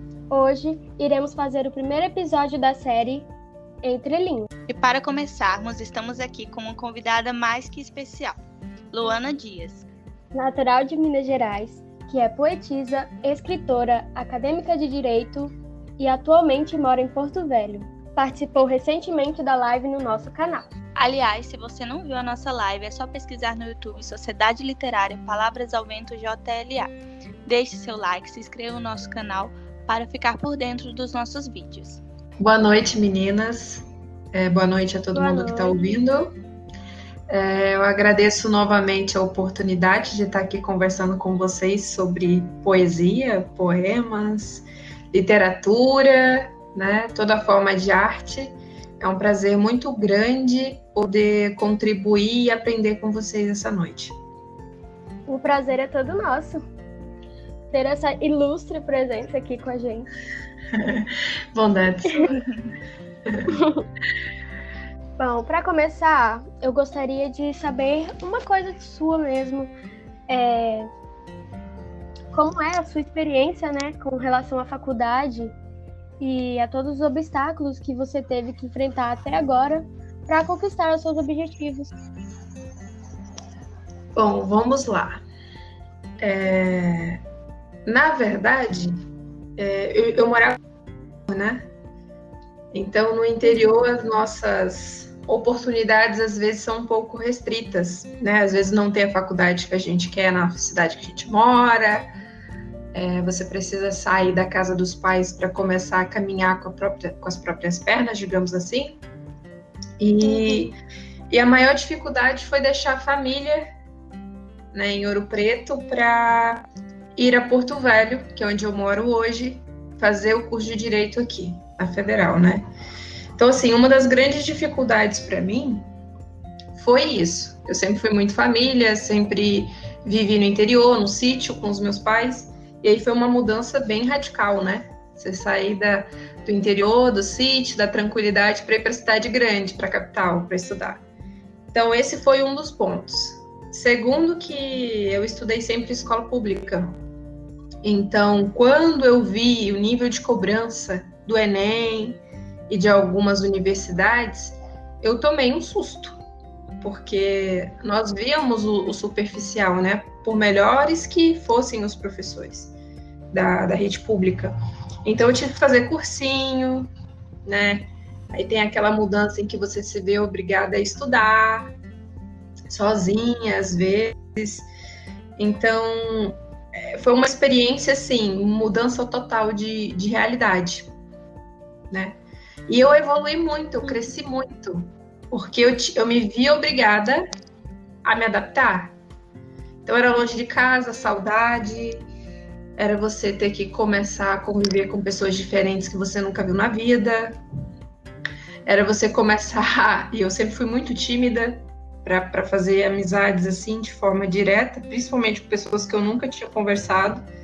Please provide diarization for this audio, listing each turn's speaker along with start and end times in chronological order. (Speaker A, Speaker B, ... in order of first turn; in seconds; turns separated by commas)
Speaker A: 0.3-3.3, Speaker A: 3.8-4.5, Speaker B: 4.7-8.4, Speaker B: 8.9-9.8, Speaker A: 10.3-20.7, Speaker B: 20.9-26.9, Speaker B: 27.4-32.0, Speaker C: 32.4-36.3, Speaker A: 35.1-35.9, Speaker C: 37.3-54.2, Speaker A: 55.3-56.6, Speaker A: 57.7-60.1, Speaker C: 60.7-62.3, Speaker A: 63.5-63.9, Speaker A: 65.2-69.7, Speaker A: 70.3-70.9, Speaker A: 72.3-75.5, Speaker A: 76.2-81.9, Speaker C: 84.1-85.2, Speaker C: 86.2-87.2, Speaker C: 87.8-89.0, Speaker C: 89.6-90.6, Speaker C: 91.3-91.7, Speaker C: 92.7-102.1, Speaker C: 102.9-109.0, Speaker C: 110.0-110.8, Speaker A: 110.2-110.7, Speaker C: 111.3-113.7, Speaker C: 114.7-122.7, Speaker C: 123.4-125.9, Speaker C: 126.7-141.0, Speaker C: 141.7-146.9, Speaker C: 147.8-156.2, Speaker C: 156.8-162.7, Speaker C: 163.3-166.9, Speaker C: 167.4-171.7, Speaker C: 172.7-174.7, Speaker C: 175.4-180.9, Speaker C: 181.9-187.2, Speaker C: 188.0-188.9, Speaker C: 189.8-192.1, Speaker C: 192.8-197.4, Speaker C: 198.7-207.2